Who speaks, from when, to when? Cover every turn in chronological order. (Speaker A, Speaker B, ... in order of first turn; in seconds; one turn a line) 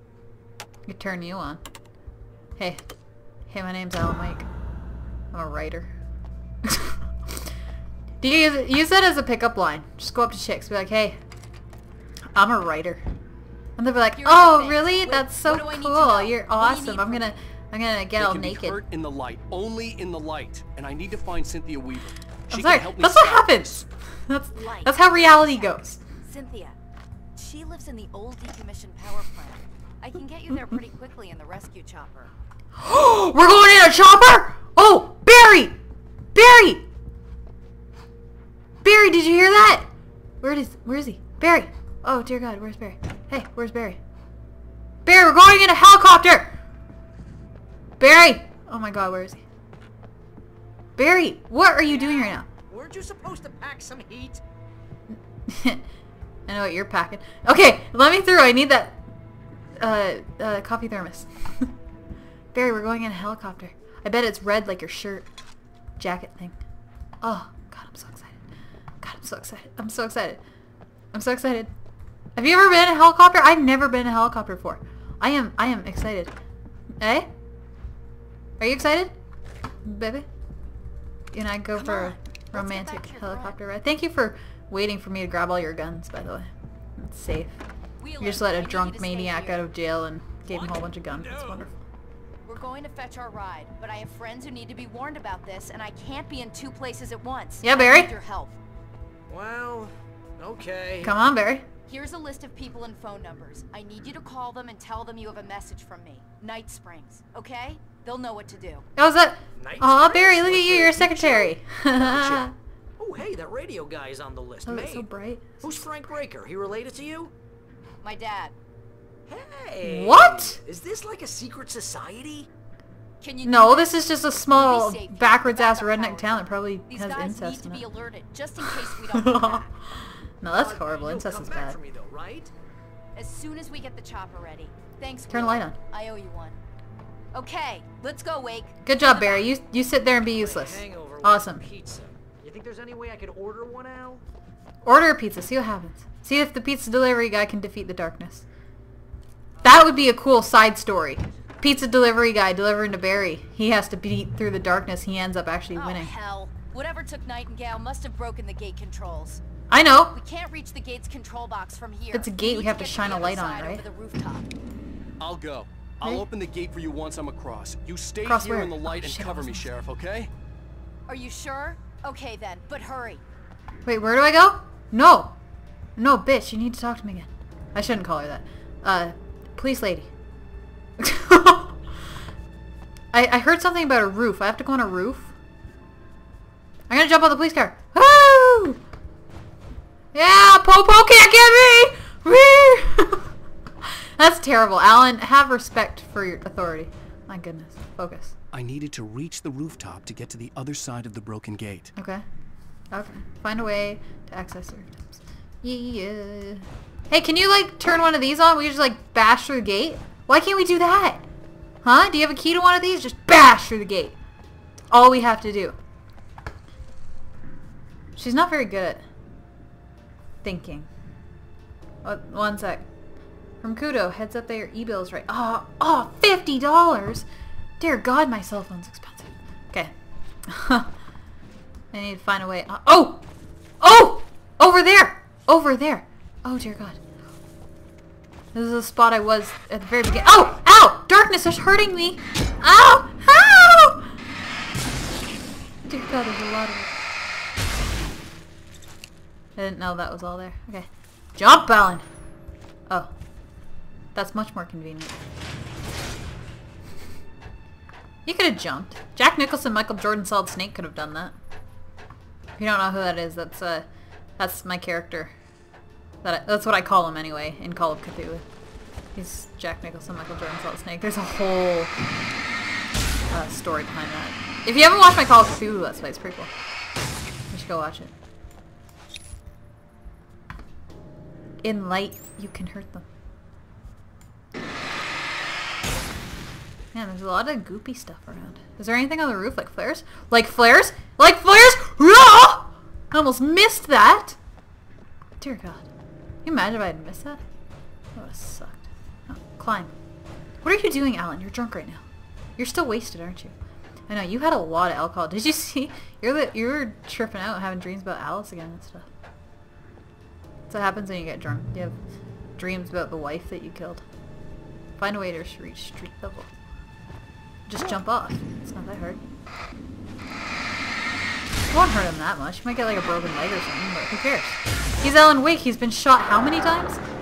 Speaker A: 0.8-1.6
Speaker A: 3.5-4.5
Speaker A: 5.3-5.9
Speaker A: 6.6-7.4
Speaker A: 8.2-11.2
Speaker A: 12.3-13.0
Speaker A: 13.8-18.8
Speaker B: 14.1-17.4
Speaker C: 18.1-23.9
Speaker A: 22.5-26.0
Speaker B: 24.5-26.8
Speaker B: 27.4-32.3
Speaker A: 32.8-35.8
Speaker A: 36.3-36.8
Speaker A: 38.8-39.9
Speaker A: 40.4-44.0
Speaker A: 45.0-46.5
Speaker A: 48.0-49.4
Speaker A: 51.0-52.5
Speaker D: 51.9-54.4
Speaker A: 55.1-55.8
Speaker A: 56.5-59.0
Speaker A: 59.8-61.7
Speaker A: 62.5-65.3
Speaker A: 66.0-66.5
Speaker A: 67.2-68.4
Speaker A: 69.0-70.4
Speaker A: 71.1-71.7
Speaker A: 72.3-76.3
Speaker A: 77.0-77.3
Speaker A: 78.6-79.1
Speaker A: 79.8-80.3
Speaker A: 81.3-87.6
Speaker B: 81.7-83.6
Speaker B: 88.0-89.7
Speaker A: 88.2-91.8
Speaker D: 90.5-91.7
Speaker B: 92.5-98.5
Speaker A: 97.6-98.1
Speaker D: 99.3-101.1
Speaker A: 101.0-101.7
Speaker B: 101.9-108.8
Speaker A: 109.0-112.5
Speaker D: 109.5-115.1
Speaker A: 114.6-115.9
Speaker D: 115.6-117.3
Speaker B: 118.0-118.5
Speaker D: 119.3-122.5
Speaker A: 119.8-120.6
Speaker B: 123.2-129.7
Speaker A: 123.4-127.8
Speaker A: 128.6-129.6
Speaker A: 130.4-131.8
Speaker D: 130.5-132.5
Speaker B: 133.2-136.6
Speaker A: 135.3-135.8
Speaker B: 137.3-139.5
Speaker A: 138.8-141.6
Speaker D: 140.3-144.2
Speaker A: 144.8-148.4
Speaker A: 149.6-156.1
Speaker B: 155.7-159.4
Speaker A: 159.7-160.2
Speaker B: 160.1-164.5
Speaker A: 162.1-163.8
Speaker C: 165.2-170.3
Speaker A: 168.2-169.7
Speaker B: 171.1-173.2
Speaker A: 173.8-175.3
Speaker A: 176.0-180.1
Speaker A: 181.0-181.8
Speaker A: 183.1-185.3
Speaker A: 186.9-188.8
Speaker A: 190.1-193.3
Speaker A: 193.8-198.3
Speaker C: 198.5-201.9
Speaker A: 201.9-202.2
Speaker A: 202.9-211.2
Speaker A: 211.8-214.2
Speaker A: 214.9-215.8
Speaker A: 218.2-219.0
Speaker A: 220.4-220.9
Speaker A: 222.0-222.8
Speaker A: 223.6-227.2
Speaker A: 227.8-229.9
Speaker A: 230.5-230.9
Speaker A: 231.9-233.2
Speaker A: 233.8-237.0
Speaker A: 238.5-244.0
Speaker A: 245.8-246.9
Speaker A: 249.6-252.0
Speaker A: 254.1-255.2
Speaker A: 258.2-261.3
Speaker A: 262.6-263.9
Speaker A: 264.4-265.3
Speaker A: 266.2-268.4
Speaker A: 269.1-271.9
Speaker A: 273.3-276.5
Speaker A: 277.5-278.1
Speaker A: 281.6-283.1
Speaker A: 286.9-294.4
Speaker A: 295.4-295.8
Speaker A: 296.4-297.4
Speaker A: 298.1-299.9
Speaker A: 300.6-302.0
Speaker A: 302.6-303.5
Speaker A: 304.1-309.1
Speaker A: 310.7-311.9
Speaker A: 312.6-314.0
Speaker A: 315.0-316.5
Speaker A: 317.7-319.2
Speaker A: 321.7-327.0